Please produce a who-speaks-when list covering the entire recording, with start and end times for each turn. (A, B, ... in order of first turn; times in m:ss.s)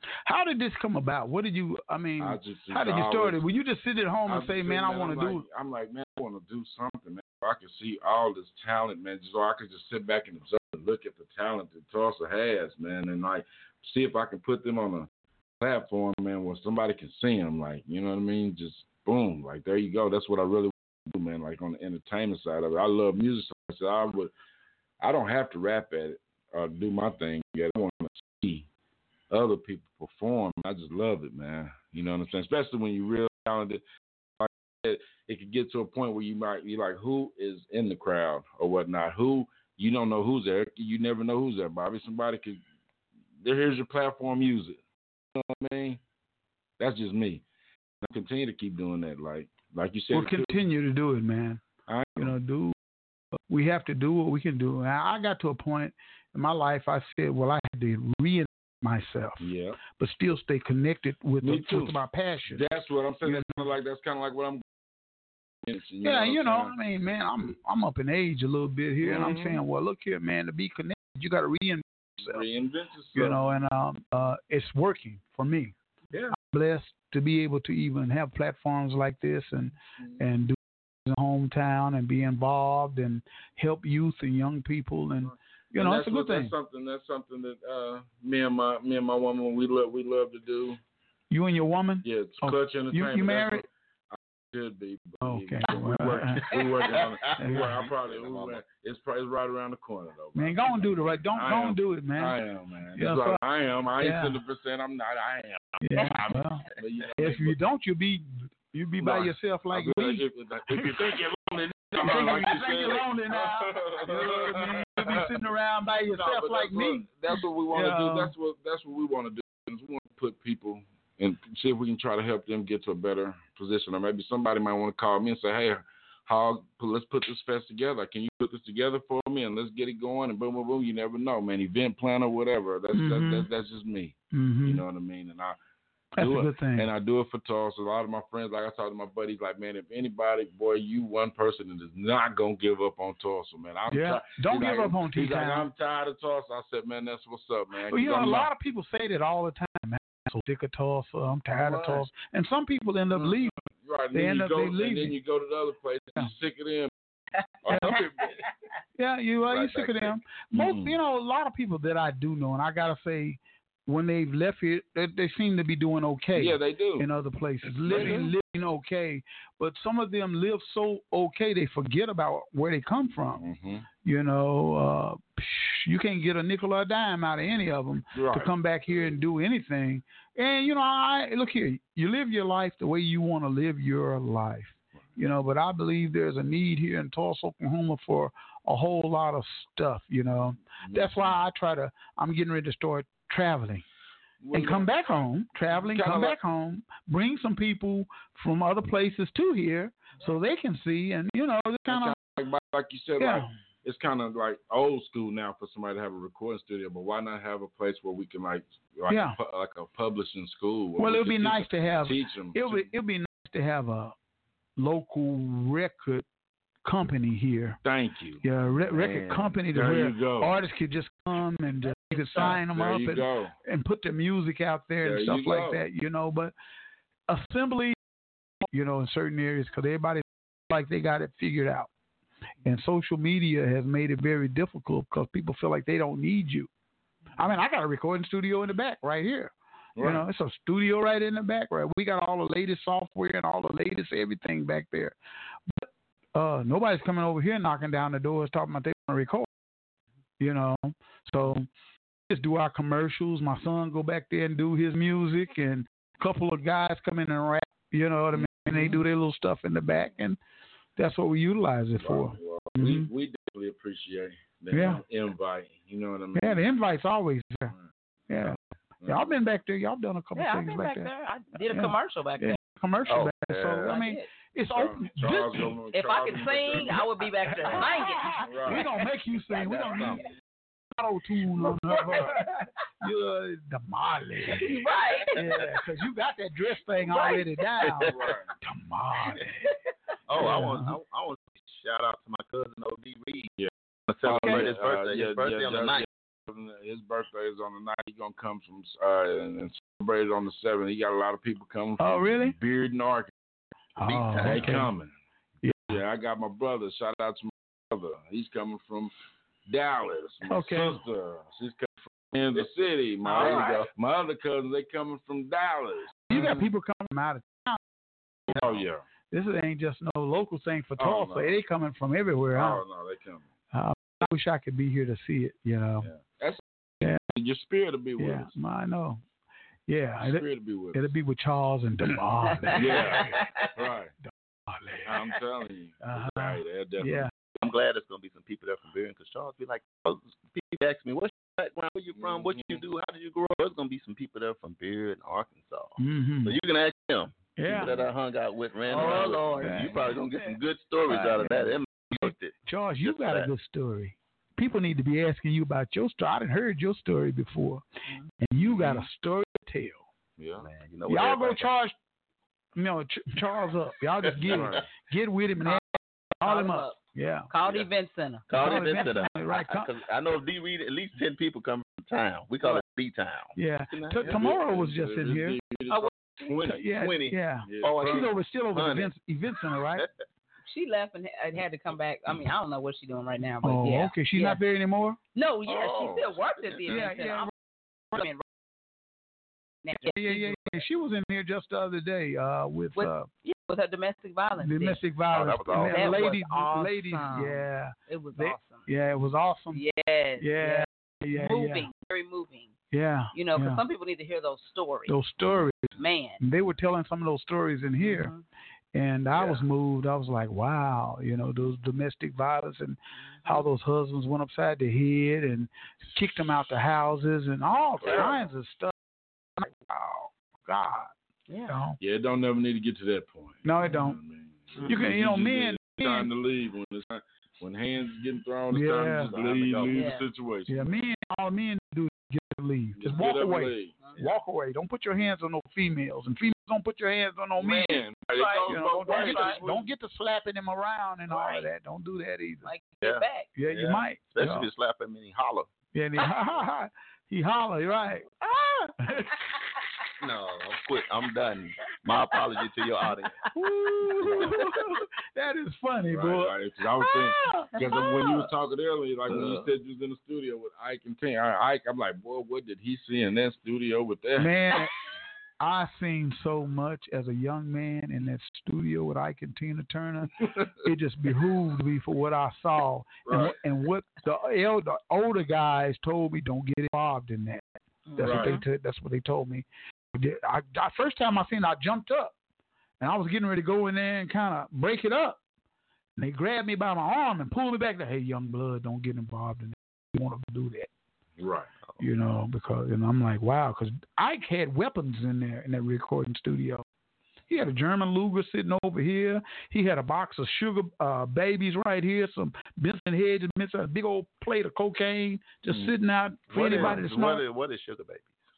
0:00.2-0:05.4 A
0:02.2-0:03.4 B
0:04.2-0:15.1 B
0:15.6-0:24.3 B
0:25.0-0:28.6 B
0:29.3-0:33.8 B
0:34.4-0:42.6 B
0:43.4-0:44.8 B
0:45.3-0:46.0 B
0:46.8-0:47.4 B
0:48.0-0:50.6 B
0:50.1-0:51.6 A
0:51.9-0:52.3 B
0:52.2-0:52.7 A
0:53.5-0:59.4 A
0:59.4-0:59.8 B
1:00.0-1:02.6 A
1:01.4-1:04.6 B
1:03.2-1:03.6 A
1:05.6-1:06.7 B
1:06.0-1:12.4 A
1:09.0-1:09.6 B
1:12.2-1:13.4 B
1:13.1-1:15.7 A
1:16.3-1:26.5 A
1:25.7-1:30.8 B
1:31.3-1:33.6 A
1:32.0-1:47.5 B
1:35.2-1:36.5 A
1:36.6-1:38.6 C
1:37.4-1:37.8 A
1:40.3-1:42.3 A
1:43.0-1:43.4 A
1:44.0-1:44.4 A
1:45.8-1:46.6 A
1:47.2-1:50.2 A
1:49.0-1:55.3 B
1:50.7-1:51.2 A
1:51.9-1:58.3 A
1:56.1-2:15.6 B
2:12.9-2:13.5 A
2:14.3-2:14.8 A
2:16.2-2:16.9 A
2:16.2-2:28.5 B
2:23.9-2:25.7 A
2:27.9-2:33.5 A
2:31.6-2:32.1 B
2:33.1-2:36.9 B
2:34.1-2:35.1 A
2:37.6-2:38.4 B
2:37.7-2:38.0 A
2:39.0-2:53.4 A
2:39.4-2:40.2 C
2:40.5-2:41.0 B
2:46.3-2:47.1 B
2:47.7-2:48.3 B
2:53.4-2:53.9 B
2:54.0-3:13.8 A
2:58.1-2:59.1 B
3:10.8-3:11.3 B
3:14.4-3:15.2 B
3:14.5-3:22.2 A
3:15.8-3:16.4 B
3:21.9-3:32.9 B
3:23.2-3:23.5 A
3:29.1-3:29.4 A
3:31.0-3:34.1 A
3:34.8-3:36.2 A
3:36.8-3:37.8 A
3:37.8-3:38.4 B
3:38.4-3:46.5 A
3:39.0-3:39.5 C
3:39.0-3:40.6 B
3:42.3-3:43.5 B
3:45.0-3:45.8 B
3:47.3-3:48.0 A
3:48.7-3:51.9 A
3:52.6-3:56.7 A
3:57.4-4:05.2 A
4:00.0-4:00.2 B
4:05.7-4:09.5 A
4:10.4-4:11.7 A
4:12.3-4:20.4 A
4:18.3-4:19.0 B
4:21.0-4:23.1 A
4:22.0-4:26.6 B
4:24.7-4:25.0 A
4:26.3-4:27.7 A
4:28.3-4:31.1 A
4:28.5-4:29.4 B
4:30.3-4:32.6 D
4:31.7-4:35.7 A
4:33.1-4:34.0 C
4:33.8-4:34.2 D
4:34.7-4:38.8 B
4:35.9-4:39.0 D
4:37.5-4:40.2 A
4:39.7-4:40.3 B
4:39.7-4:40.2 C
4:40.9-4:42.4 A
4:43.0-4:44.7 A
4:44.5-4:45.4 D
4:45.3-4:49.7 A
4:47.2-4:48.4 C
4:48.0-4:48.5 B
4:50.3-4:53.5 C
4:50.3-4:51.0 A
4:53.6-5:03.3 B
4:54.1-4:56.0 C
4:54.3-4:54.6 A
5:02.0-5:02.6 A
5:04.0-5:04.9 A
5:04.0-5:04.8 C
5:04.4-5:05.1 B
5:05.6-5:06.0 A
5:05.9-5:09.1 B
5:09.7-5:16.7 B
5:10.5-5:11.0 A
5:13.2-5:13.7 A
5:13.4-5:13.9 C
5:16.3-5:17.8 A
5:18.5-5:19.0 B
5:19.3-5:22.8 A
5:21.0-5:21.6 B
5:22.5-5:23.4 B
5:23.7-5:26.1 A
5:26.0-5:28.5 B
5:28.2-5:29.2 A
5:29.9-5:33.4 A
5:30.2-5:31.1 B
5:32.7-5:33.7 D
5:32.7-5:34.1 B
5:34.3-5:35.2 A
5:35.0-5:37.3 B
5:36.0-5:37.3 A
5:37.6-5:53.5 C
5:42.1-5:42.8 B
5:46.0-5:46.6 A
5:47.6-5:48.0 A
5:48.9-5:50.1 B
5:49.1-5:49.9 A
5:51.1-5:57.8 A
5:58.4-6:00.0 A
5:58.7-5:59.1 B
6:00.4-6:00.7 B
6:00.6-6:01.7 C
6:01.1-6:01.9 A
6:02.8-6:05.8 A
6:04.2-6:04.8 C
6:04.5-6:04.8 B
6:06.4-6:07.5 A
6:06.4-6:07.0 D
6:07.5-6:09.2 D
6:08.5-6:14.3 C
6:08.5-6:09.9 A
6:13.6-6:15.6 A
6:14.2-6:16.8 B
6:16.6-6:20.0 A
6:17.0-6:19.1 C
6:17.6-6:18.3 B
6:19.9-6:20.2 C
6:20.6-6:24.6 D
6:23.6-6:25.2 A
6:25.3-6:27.5 D
6:25.6-6:27.1 C
6:25.8-6:26.3 B
6:26.9-6:27.5 A
6:28.1-6:28.4 D
6:29.8-6:30.8 D
6:30.0-6:33.3 A
6:33.0-6:35.0 D
6:34.6-6:39.8 A
6:35.3-6:36.3 C
6:35.7-6:38.8 D
6:39.7-6:42.7 D
6:40.4-6:41.9 A
6:42.9-6:43.8 A
6:43.3-6:45.1 D
6:45.1-6:48.3 A
6:46.0-6:46.4 D
6:48.0-6:48.4 D
6:48.9-6:58.9 A
6:53.3-6:53.6 D
6:58.0-6:58.4 B
6:59.6-7:01.1 A
7:01.5-7:01.8 D
7:01.7-7:02.0 A
7:02.0-7:11.0 B
7:03.6-7:04.2 A
7:04.8-7:06.3 A
7:08.7-7:09.3 A
7:09.2-7:10.1 C
7:09.9-7:10.2 D
7:10.7-7:18.0 A
7:13.0-7:13.9 B
7:17.6-7:19.9 B
7:18.3-7:19.6 D
7:18.7-7:22.7 A
7:21.3-7:21.7 D
7:22.6-7:23.5 D
7:23.0-7:25.7 C
7:23.5-7:24.7 A
7:25.9-7:28.3 A
7:28.4-7:28.9 D
7:29.0-7:29.5 A
7:30.2-7:33.4 C
7:33.5-7:37.7 A
7:34.2-7:34.7 C
7:36.1-7:44.5 B
7:39.3-7:39.6 C
7:44.4-7:44.9 A
7:45.6-8:02.3 A
7:50.4-7:50.7 B
7:53.2-7:53.5 B
7:58.1-7:58.6 D
7:58.2-7:58.6 B
8:03.0-8:05.4 A
8:06.2-8:10.9 A
8:11.4-8:11.7 B
8:12.0-8:16.8 A
8:17.5-8:27.4 A
8:25.7-8:25.9 B
8:26.5-8:28.3 C
8:26.6-8:27.0 B